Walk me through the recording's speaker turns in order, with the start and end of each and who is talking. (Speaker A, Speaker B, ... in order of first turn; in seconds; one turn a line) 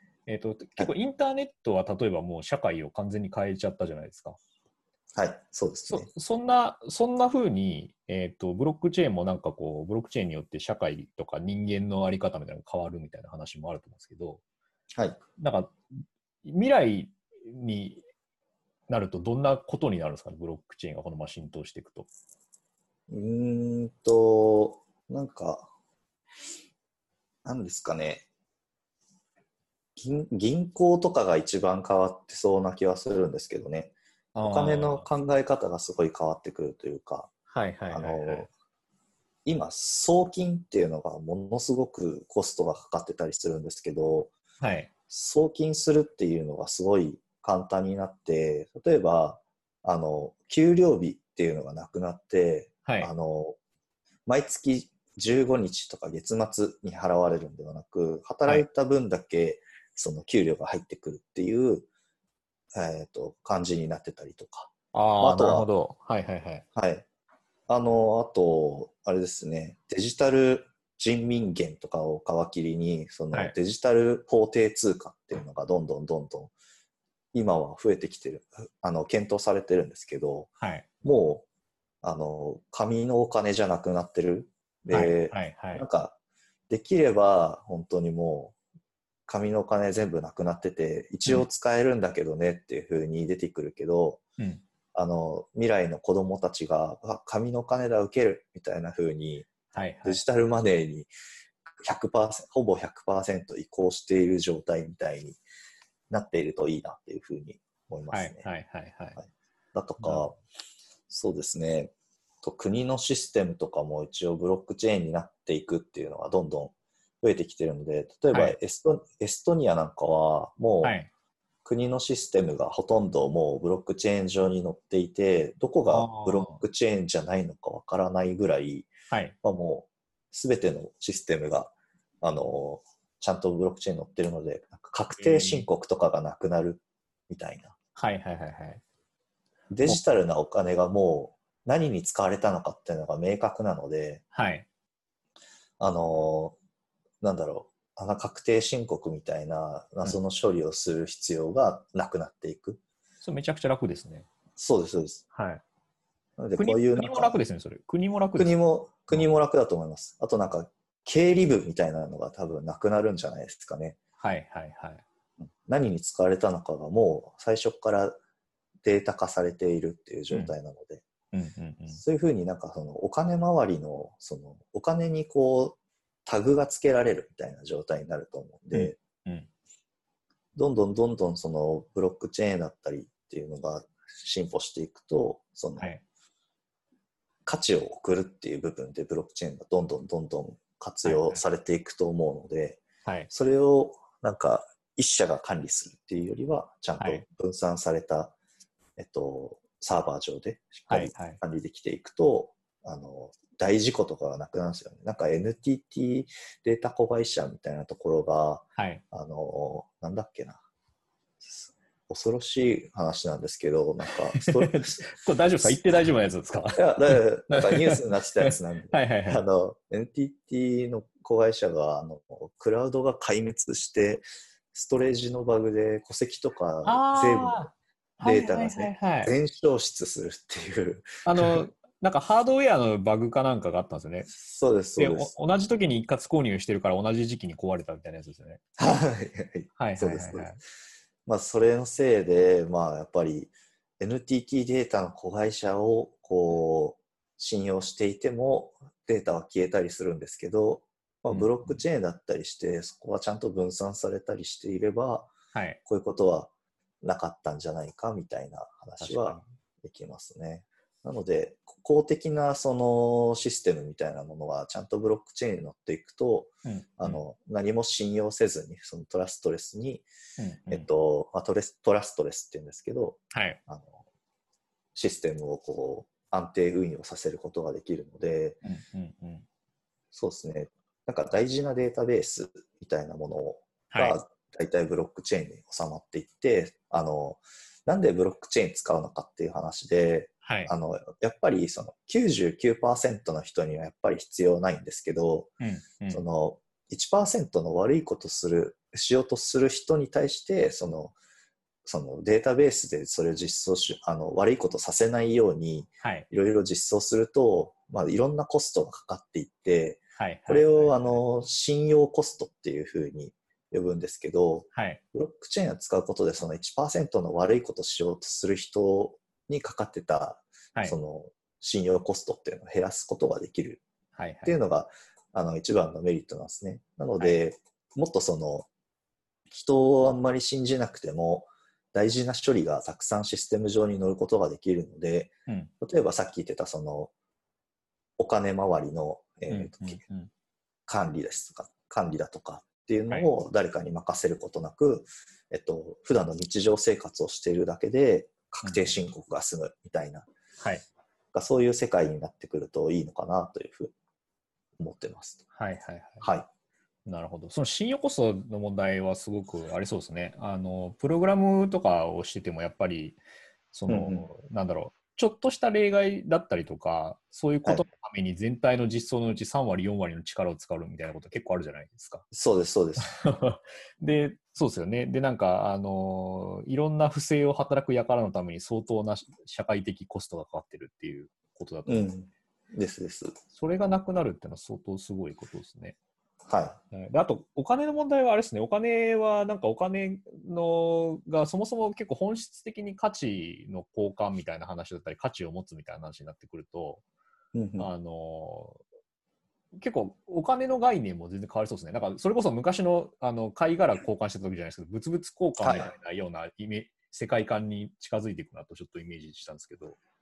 Speaker A: 0.3-4.4
Speaker B: 5.1-6.1
Speaker A: 5.9-14.4
Speaker A: 15.4-18.0
Speaker A: 18.9-22.1
Speaker B: 23.1-25.7
Speaker B: 27.4-28.2
Speaker B: 29.9-37.3
Speaker A: 34.3-35.1
Speaker A: 37.5-38.5
Speaker B: 37.9-38.5
Speaker B: 39.4-44.3
Speaker A: 44.6-44.9
Speaker B: 45.1-53.6
Speaker B: 54.2-61.9
Speaker B: 62.7-65.7
Speaker A: 64.9-66.6
Speaker B: 66.7-67.0
Speaker B: 67.7-76.5
Speaker B: 77.3-80.5
Speaker B: 81.0-81.5
Speaker B: 82.0-86.2
Speaker A: 84.9-85.8
Speaker B: 86.7-88.5
Speaker B: 89.3-94.2
Speaker B: 94.9-101.1
Speaker A: 99.7-100.2
Speaker B: 101.8-105.4
Speaker B: 106.1-108.5
Speaker A: 108.1-109.2
Speaker B: 109.7-110.4
Speaker A: 110.0-110.2
Speaker B: 111.1-121.0
Speaker A: 118.3-118.6
Speaker A: 120.8-121.1
Speaker B: 121.6-128.9
Speaker A: 125.9-126.6
Speaker A: 129.1-129.3
Speaker B: 129.4-137.7
Speaker A: 135.1-135.7
Speaker A: 137.9-138.8
Speaker B: 139.7-144.2
Speaker A: 144.3-144.7
Speaker B: 145.8-146.6
Speaker B: 147.2-152.8
Speaker A: 153.2-154.3
Speaker B: 154.6-155.2
Speaker A: 155.3-155.6
Speaker B: 156.4-157.4
Speaker A: 156.6-158.6
Speaker B: 158.4-164.0
Speaker A: 164.2-165.0
Speaker B: 165.7-168.2
Speaker B: 168.8-171.0
Speaker A: 171.3-172.0
Speaker B: 171.9-179.0
Speaker A: 178.7-179.5
Speaker B: 180.6-185.9
Speaker A: 185.8-186.0
Speaker B: 187.4-198.3
Speaker A: 191.0-191.4
Speaker A: 193.0-193.3
Speaker A: 197.0-197.2
Speaker B: 199.0-210.6
Speaker A: 200.9-201.4
Speaker A: 208.8-209.0
Speaker B: 211.4-215.1
Speaker A: 214.4-218.0
Speaker B: 216.7-231.7
Speaker A: 218.9-219.4
Speaker A: 226.8-229.3
Speaker A: 231.2-234.3
Speaker B: 234.3-235.3
Speaker A: 235.0-238.6
Speaker B: 238.8-240.6
Speaker A: 239.8-240.6
Speaker B: 241.2-255.3
Speaker A: 251.3-251.8
Speaker A: 255.5-255.8
Speaker B: 255.8-270.1
Speaker A: 259.0-259.5
Speaker A: 266.6-267.2
Speaker A: 270.4-270.9
Speaker B: 270.7-274.0
Speaker A: 273.3-273.6
Speaker B: 274.9-278.6
Speaker A: 278.6-279.4
Speaker B: 280.1-295.5
Speaker A: 283.9-284.2
Speaker A: 290.4-290.7
Speaker A: 295.6-296.2
Speaker B: 296.1-301.1
Speaker B: 301.8-323.8
Speaker A: 310.2-311.2
Speaker A: 314.7-315.0
Speaker A: 324.1-324.6
Speaker B: 324.4-328.7
Speaker B: 329.5-337.1
Speaker B: 338.2-340.0
Speaker A: 339.5-340.3
Speaker B: 340.9-350.3
Speaker A: 348.6-349.0
Speaker B: 351.3-353.9
Speaker B: 354.8-355.4
Speaker A: 355.5-356.2
Speaker B: 356.2-356.5
Speaker A: 357.1-363.2
Speaker A: 363.7-372.2
Speaker B: 363.9-364.3
Speaker B: 372.3-373.1
Speaker A: 373.0-382.1
Speaker B: 381.9-383.3
Speaker A: 383.5-385.9
Speaker B: 386.5-386.8
Speaker A: 386.9-397.0
Speaker B: 397.5-397.9
Speaker A: 397.8-398.8
Speaker A: 399.7-410.0
Speaker B: 405.6-405.9